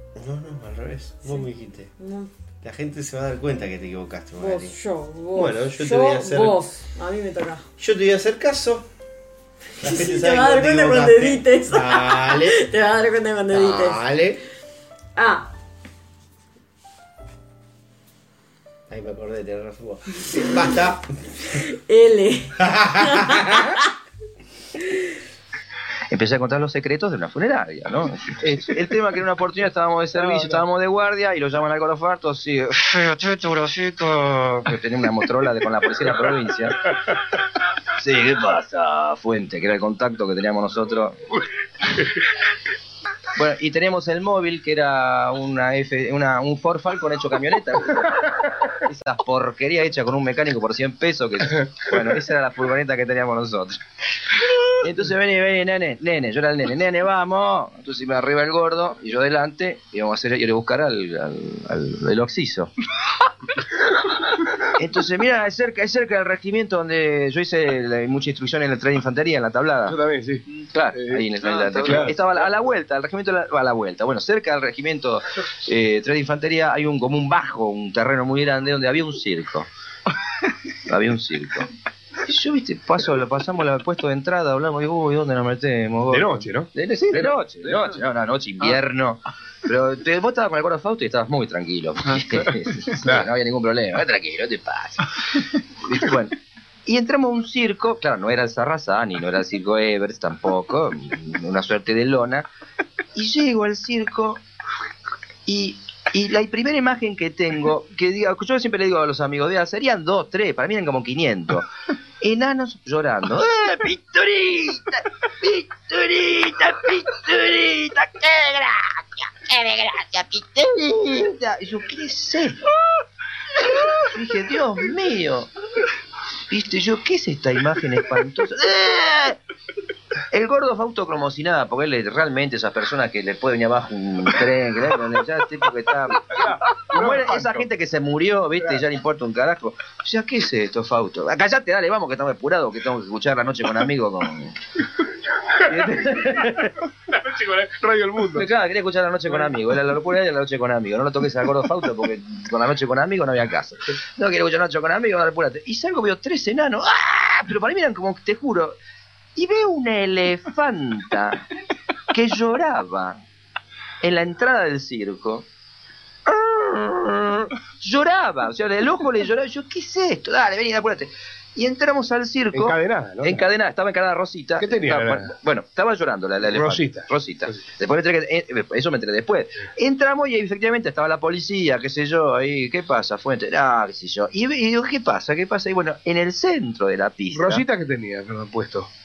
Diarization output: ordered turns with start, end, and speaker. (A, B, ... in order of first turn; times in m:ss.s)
0:00.1-0:01.9 A
0:02.0-0:02.3 B
0:02.6-0:04.7 A
0:04.4-0:07.6 B
0:05.3-0:06.6 A
0:07.8-0:08.9 A
0:09.8-0:12.6 A
0:09.8-0:14.0 B
0:13.5-0:14.4 A
0:15.2-0:15.5 B
0:18.9-0:21.0 A
0:21.6-0:23.8 B
0:22.6-0:23.7 A
0:26.1-0:36.8 C
0:30.3-0:30.6 D
0:38.0-0:41.2 C
0:43.4-0:48.1 C
0:48.8-0:53.8 C
0:54.8-1:02.7 C
1:04.8-1:10.0 C
1:09.9-1:10.4 D
1:10.5-1:19.7 C
1:11.0-1:12.3 D
1:20.9-1:21.7 C
1:22.3-1:35.0 C
1:26.1-1:27.8 D
1:35.8-1:36.3 C
1:36.8-1:42.5 C
1:43.1-1:44.4 C
1:45.4-1:51.7 C
1:52.2-2:02.6 C
2:04.0-2:05.5 C
2:06.5-2:09.4 C
2:10.3-2:16.2 C
2:16.4-2:17.7 D
2:16.9-2:24.5 C
2:25.7-2:26.7 C
2:27.1-2:28.5 D
2:28.3-2:38.8 C
2:39.4-2:41.4 C
2:42.1-2:43.2 C
2:44.0-2:45.4 C
2:46.3-3:07.6 C
2:52.5-2:53.3 D
2:54.6-2:55.3 D
2:56.5-2:57.1 D
3:07.3-3:08.9 D